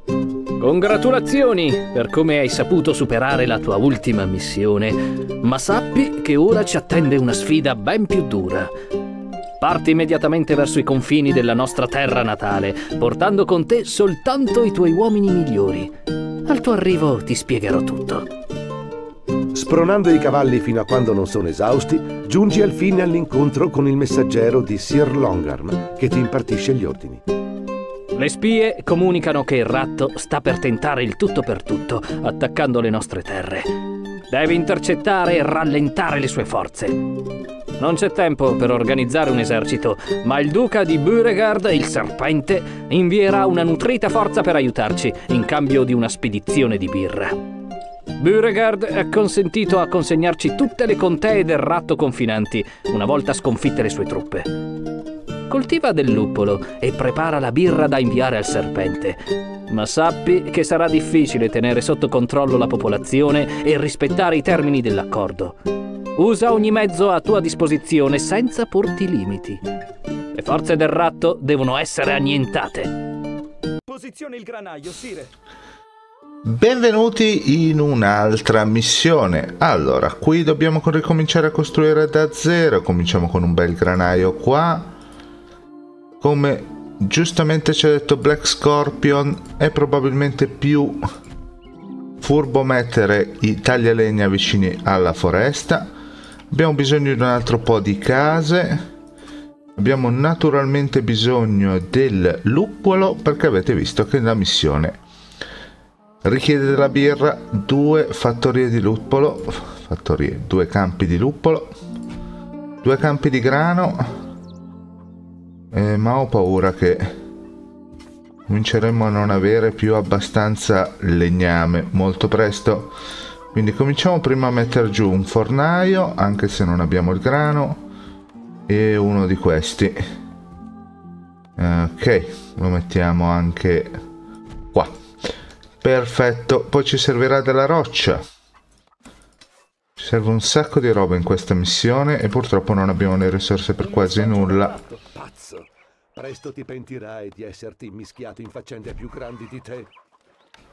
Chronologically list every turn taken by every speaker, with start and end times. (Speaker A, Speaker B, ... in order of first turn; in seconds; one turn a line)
Speaker A: 0.6-8.7
Speaker A: 9.6-15.9
Speaker A: 16.4-18.3
Speaker B: 19.5-27.2
Speaker A: 28.1-33.7
Speaker A: 34.3-37.3
Speaker A: 37.8-47.4
Speaker A: 48.2-54.6
Speaker A: 55.5-65.6
Speaker A: 66.1-69.6
Speaker A: 70.3-72.9
Speaker C: 73.9-75.3
Speaker D: 76.4-84.9
Speaker D: 86.2-91.1
Speaker D: 92.2-95.9
Speaker D: 96.5-98.8
Speaker D: 99.8-105.0
Speaker D: 106.2-111.7
Speaker D: 112.8-114.2
Speaker D: 115.7-117.2
Speaker D: 118.5-123.0
Speaker D: 123.5-127.8
Speaker D: 128.7-130.0
Speaker D: 131.6-134.0
Speaker D: 134.7-135.0
Speaker D: 135.8-138.2
Speaker D: 140.0-144.8
Speaker C: 143.8-145.0
Speaker B: 145.1-149.9